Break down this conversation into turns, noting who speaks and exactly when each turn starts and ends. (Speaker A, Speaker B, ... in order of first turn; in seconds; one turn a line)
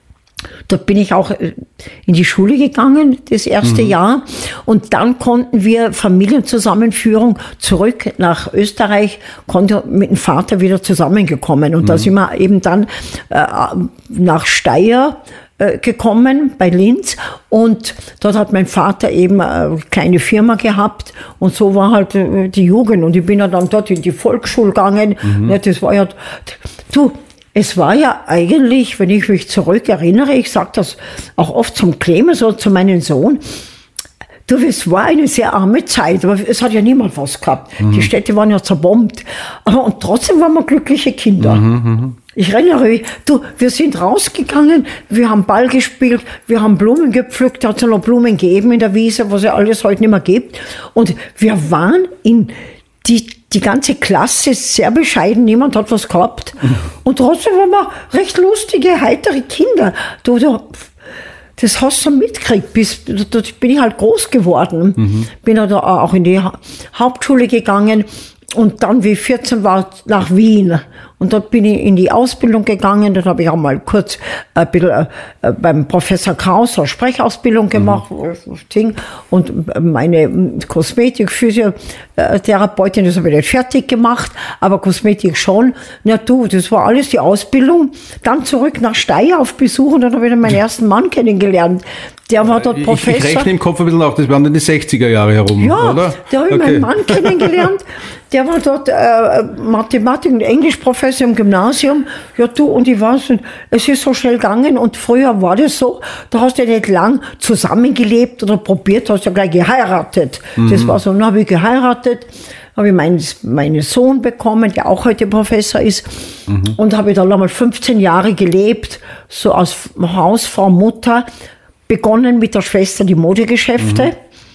Speaker A: 0.7-33.4
Speaker B: 3.6-3.9
Speaker B: 11.8-12.1
Speaker B: 25.3-25.6
Speaker A: 34.5-41.6
Speaker B: 37.8-38.1
Speaker B: 41.4-42.2
Speaker A: 42.3-60.9
Speaker A: 61.6-93.5
Speaker B: 92.5-97.5
Speaker A: 95.6-121.3
Speaker B: 110.6-111.0
Speaker B: 116.5-116.7
Speaker A: 121.9-124.2